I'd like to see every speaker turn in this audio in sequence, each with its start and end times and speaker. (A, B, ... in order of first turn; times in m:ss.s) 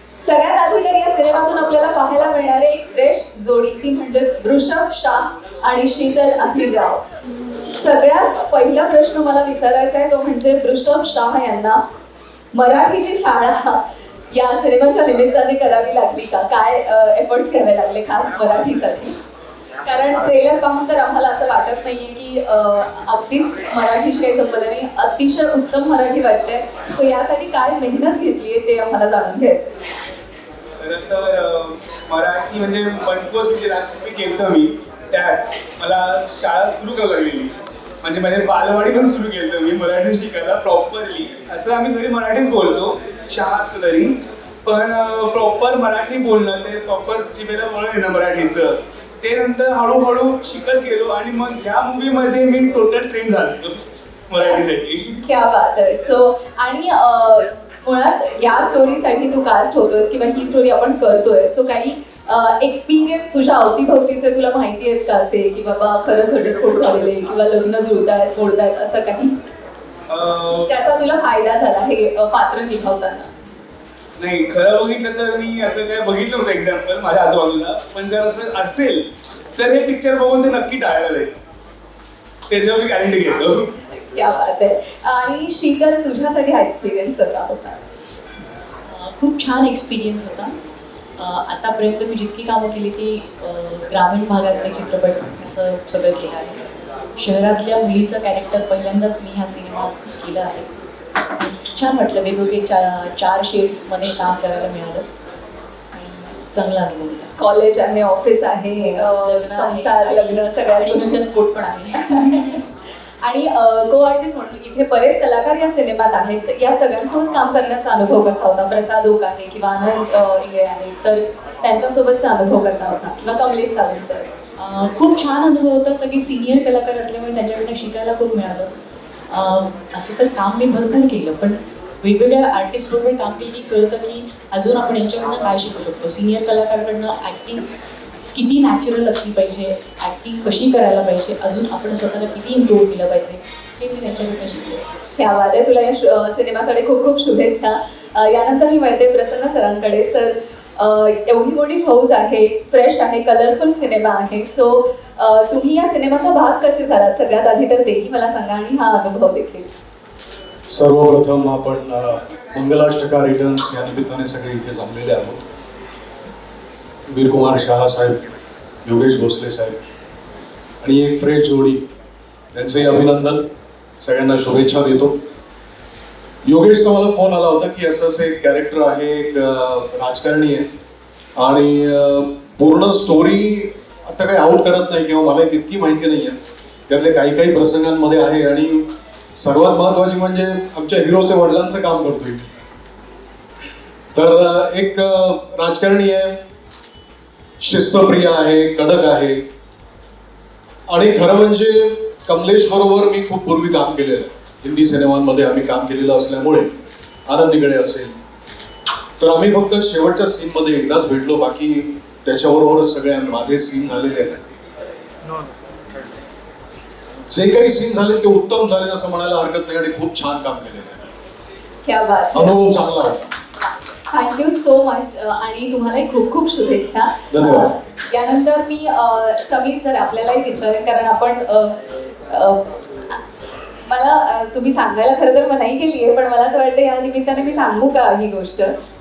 0:00.2-0:07.0 A
0:07.6-0:11.8 A
0:12.5-0:19.2 A
0:19.8-0:29.8 A
0:30.8-0:53.8 B
0:54.3-0:55.2 B
0:55.2-1:09.3 A
1:10.1-1:10.7 B
1:10.7-1:13.3 A
1:14.2-1:21.3 B
1:22.5-1:23.7 B
1:23.9-1:27.8 A
1:28.9-1:30.6 C
1:31.2-1:36.6 C
1:37.2-1:40.7 C
1:41.4-1:45.1 C
1:45.9-1:47.3 C
1:47.4-1:51.3 A
1:48.9-1:52.2 C
1:51.9-1:52.6 A
1:53.2-2:04.3 A
2:04.6-2:08.7 C
2:09.3-2:17.7 C
2:18.3-2:24.8 C
2:25.2-2:39.7 A
2:40.7-2:45.4 D
2:47.1-2:48.3 D
2:48.8-2:49.8 D
2:50.8-2:51.8 D
2:52.5-2:53.4 D
2:54.0-2:55.2 D
2:56.4-3:00.7 D
3:01.4-3:06.4 D
3:06.9-3:12.5 D
3:14.1-3:16.4 D
3:17.6-3:19.4 D
3:20.9-3:26.7 D
3:27.3-3:28.2 D
3:29.2-3:34.4 D
3:37.3-3:41.1 D
3:41.8-3:42.5 A
3:42.3-3:43.3 D
3:44.1-3:53.2 A
3:47.3-3:47.7 D
3:53.9-3:58.7 A